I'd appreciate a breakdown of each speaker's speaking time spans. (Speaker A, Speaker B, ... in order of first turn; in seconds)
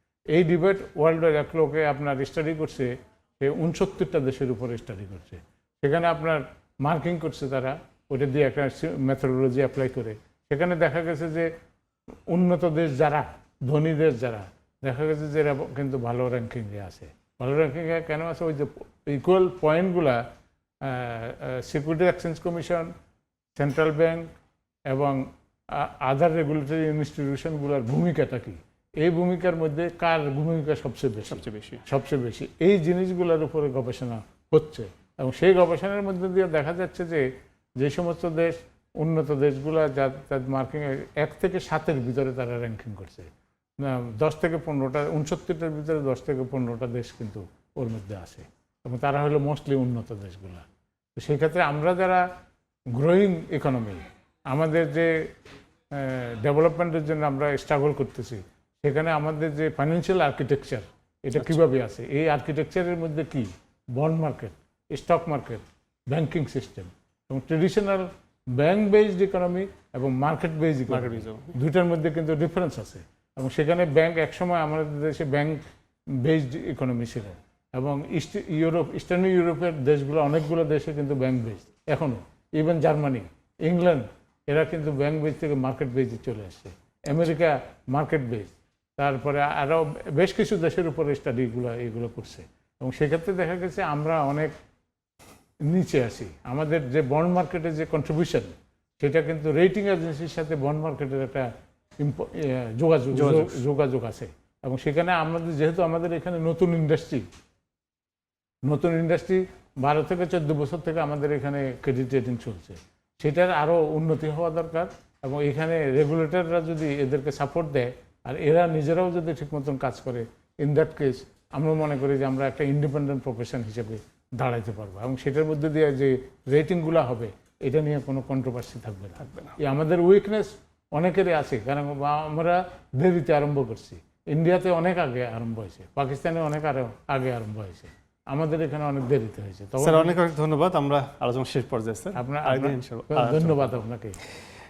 Speaker A: 0.3-11.5, 12.3-20.2, 20.8-22.9, 23.6-24.2, 24.9-37.3, 37.8-50.6, 51.2-52.2, 52.9-55.3, 55.9-75.6, 76.2-94.5, 95.7-101.5, 102.0-107.3, 108.7-140.2, 142.2-144.2
Speaker B: 31.3-31.8, 70.9-71.5, 103.1-103.6, 129.2-129.6, 139.8-143.6